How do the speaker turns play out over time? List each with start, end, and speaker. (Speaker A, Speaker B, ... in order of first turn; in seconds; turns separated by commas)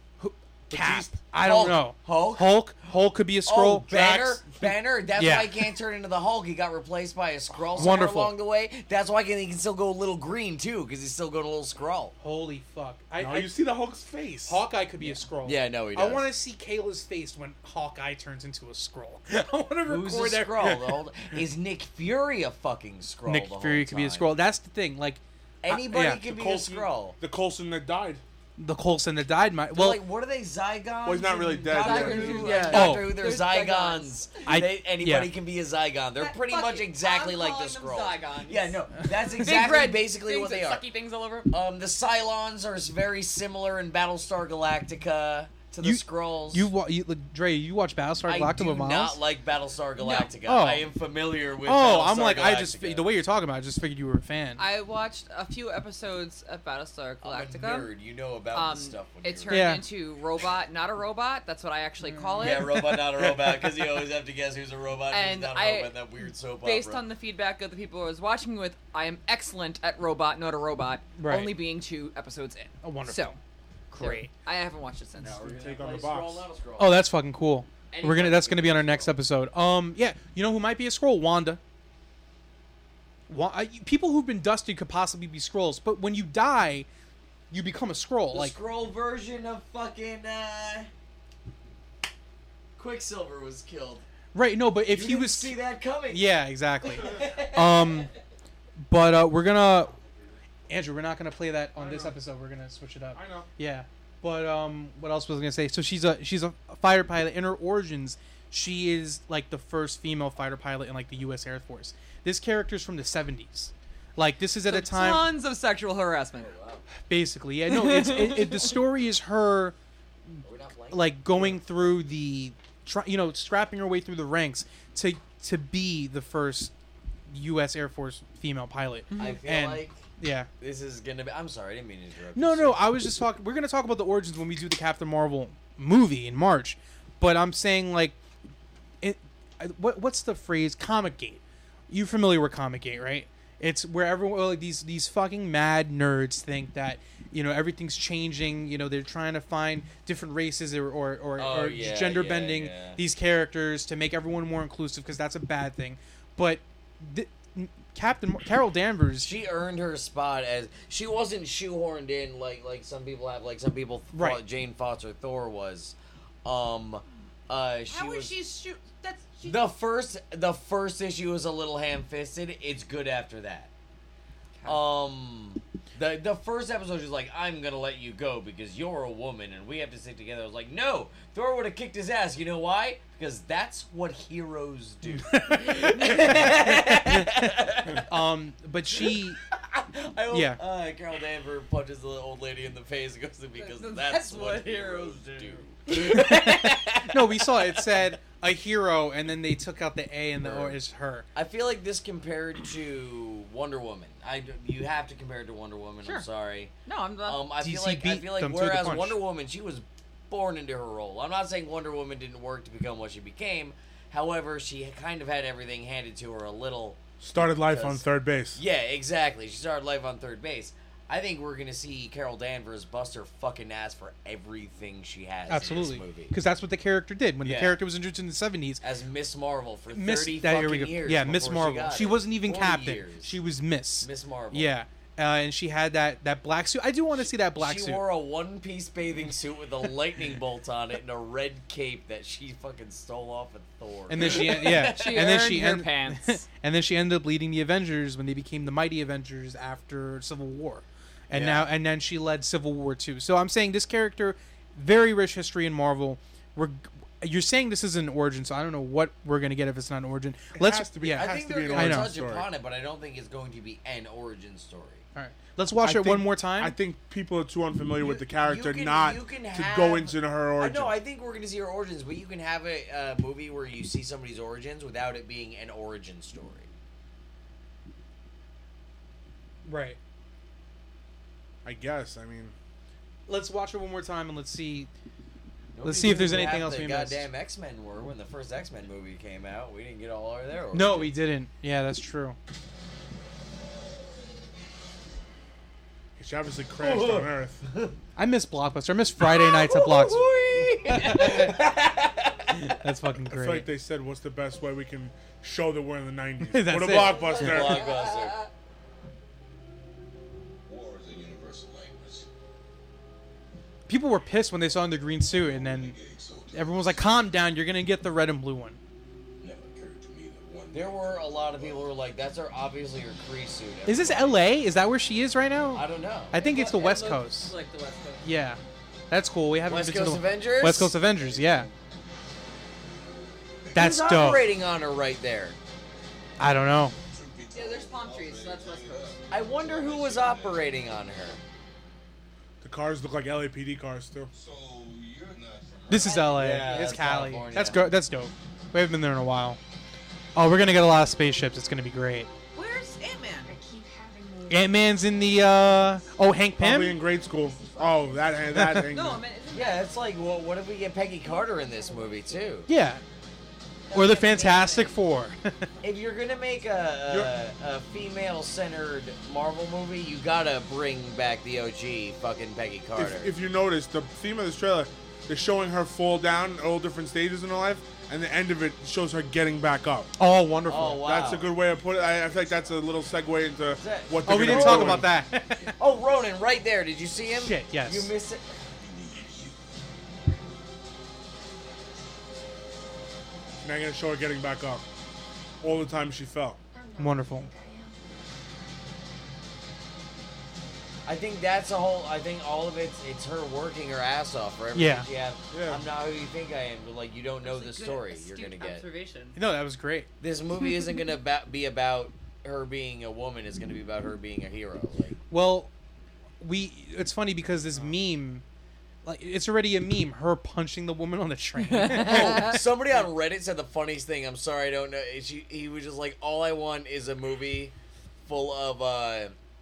Speaker A: 0.2-5.6, Speaker B: 0.7-1.2, Speaker C: 1.4-2.6, Speaker C: 3.5-12.1, Speaker A: 7.8-8.3, Speaker A: 12.2-13.5, Speaker B: 13.2-14.6, Speaker A: 14.4-20.8, Speaker C: 15.0-16.2, Speaker C: 19.8-24.3, Speaker B: 20.6-20.9, Speaker A: 23.2-26.2, Speaker C: 25.6-27.1, Speaker B: 26.2-28.2, Speaker A: 28.6-30.0, Speaker C: 29.7-40.9, Speaker B: 31.0-32.8, Speaker D: 31.7-34.5, Speaker A: 32.7-33.1, Speaker A: 34.5-35.3, Speaker D: 36.1-41.5, Speaker C: 41.5-46.7, Speaker A: 45.8-49.2, Speaker C: 48.2-53.1, Speaker A: 50.0-50.9, Speaker A: 51.6-54.6, Speaker D: 54.6-57.9, Speaker C: 57.2-59.8, Speaker D: 58.5-63.0, Speaker A: 59.5-59.8, Speaker A: 62.0-63.9, Speaker C: 62.4-67.0, Speaker D: 65.1-65.9, Speaker D: 66.6-73.3, Speaker A: 71.2-71.5, Speaker A: 72.8-73.4, Speaker A: 73.9-74.3, Speaker D: 74.0-75.4, Speaker C: 75.2-77.0, Speaker B: 75.4-76.5, Speaker A: 76.8-81.6, Speaker C: 77.9-79.2, Speaker A: 83.3-86.9, Speaker A: 87.5-88.5, Speaker C: 88.3-90.9, Speaker C: 92.8-94.0, Speaker A: 94.3-95.5, Speaker C: 94.9-96.3, Speaker A: 96.1-98.1, Speaker C: 96.8-98.1, Speaker A: 98.8-99.9, Speaker A: 100.7-115.4, Speaker B: 101.8-102.2, Speaker B: 103.1-103.5, Speaker D: 114.6-116.5, Speaker C: 116.3-116.9, Speaker A: 117.0-119.7, Speaker D: 117.7-118.7, Speaker A: 120.4-126.7, Speaker C: 120.4-121.5, Speaker A: 127.3-130.5, Speaker D: 129.1-129.4, Speaker C: 129.2-130.1, Speaker C: 130.6-132.8, Speaker A: 132.3-138.2, Speaker A: 139.0-159.3, Speaker C: 151.4-153.0, Speaker C: 159.2-168.3, Speaker A: 164.1-164.4, Speaker D: 167.9-169.6, Speaker C: 169.4-173.7, Speaker C: 174.7-188.1, Speaker A: 185.1-187.5, Speaker A: 188.1-189.4, Speaker C: 188.9-198.1, Speaker A: 190.3-190.6, Speaker D: 193.5-195.7, Speaker A: 195.9-201.2, Speaker C: 200.4-200.8, Speaker C: 201.3-206.7, Speaker D: 206.8-207.4, Speaker C: 207.2-218.0, Speaker A: 207.6-209.2, Speaker B: 217.2-218.6, Speaker C: 218.5-226.3, Speaker A: 225.5-228.8, Speaker C: 227.4-227.8, Speaker C: 228.8-233.4, Speaker A: 229.9-238.0, Speaker C: 234.0-234.7, Speaker C: 237.2-245.3, Speaker A: 244.1-262.1, Speaker D: 244.2-246.4, Speaker C: 251.3-251.7, Speaker B: 260.5-262.5, Speaker C: 261.1-265.0, Speaker A: 265.1-266.8, Speaker B: 265.8-271.0, Speaker C: 268.0-276.7, Speaker A: 279.6-280.0, Speaker B: 281.6-282.5, Speaker A: 283.3-284.9, Speaker C: 285.8-291.1, Speaker A: 285.8-287.3, Speaker A: 290.7-292.4, Speaker B: 296.2-297.6, Speaker C: 296.8-297.9, Speaker A: 298.2-300.2, Speaker C: 299.2-302.7, Speaker D: 301.0-301.4, Speaker A: 301.0-301.6, Speaker A: 302.6-303.7, Speaker B: 303.3-307.9, Speaker A: 306.5-307.6, Speaker D: 306.9-308.5, Speaker C: 307.2-308.4, Speaker E: 310.6-312.3, Speaker A: 313.9-315.9, Speaker E: 315.3-317.2, Speaker A: 316.5-318.8, Speaker E: 319.4-322.2, Speaker C: 320.7-324.4, Speaker A: 323.9-327.5, Speaker C: 325.7-326.4, Speaker D: 326.3-328.2, Speaker A: 328.2-331.7, Speaker C: 329.7-331.0, Speaker E: 331.0-331.7, Speaker A: 333.7-334.5, Speaker C: 333.7-335.6, Speaker A: 336.4-336.9, Speaker E: 337.1-340.7, Speaker D: 337.5-339.2, Speaker C: 339.3-341.4, Speaker B: 342.6-344.3, Speaker E: 344.3-346.6, Speaker A: 345.9-349.6, Speaker D: 345.9-346.7, Speaker C: 346.3-347.9, Speaker A: 350.3-352.3, Speaker D: 352.5-353.6, Speaker F: 353.4-358.7, Speaker A: 354.5-357.0, Speaker B: 356.6-359.2, Speaker A: 358.5-358.9, Speaker D: 358.9-359.9, Speaker C: 359.5-362.7, Speaker F: 361.1-362.5, Speaker A: 362.7-363.0, Speaker D: 363.9-365.0, Speaker A: 363.9-365.7, Speaker C: 365.8-373.3, Speaker F: 365.9-366.9, Speaker B: 372.9-380.1, Speaker A: 380.2-381.1, Speaker C: 380.7-381.6, Speaker B: 381.0-385.1, Speaker E: 381.4-382.8, Speaker C: 383.7-385.1, Speaker A: 384.2-385.8, Speaker C: 385.8-388.5, Speaker A: 387.4-388.1, Speaker E: 388.5-390.4, Speaker B: 393.6-394.9, Speaker B: 395.6-396.6, Speaker F: 396.7-397.9, Speaker A: 397.0-397.5, Speaker C: 401.1-408.8, Speaker A: 404.7-405.1, Speaker B: 405.5-405.8, Speaker D: 407.4-409.4, Speaker A: 409.4-410.1, Speaker C: 410.2-415.2, Speaker A: 415.3-415.7, Speaker A: 416.4-418.4, Speaker A: 419.0-422.6, Speaker D: 421.6-422.6, Speaker C: 421.9-429.3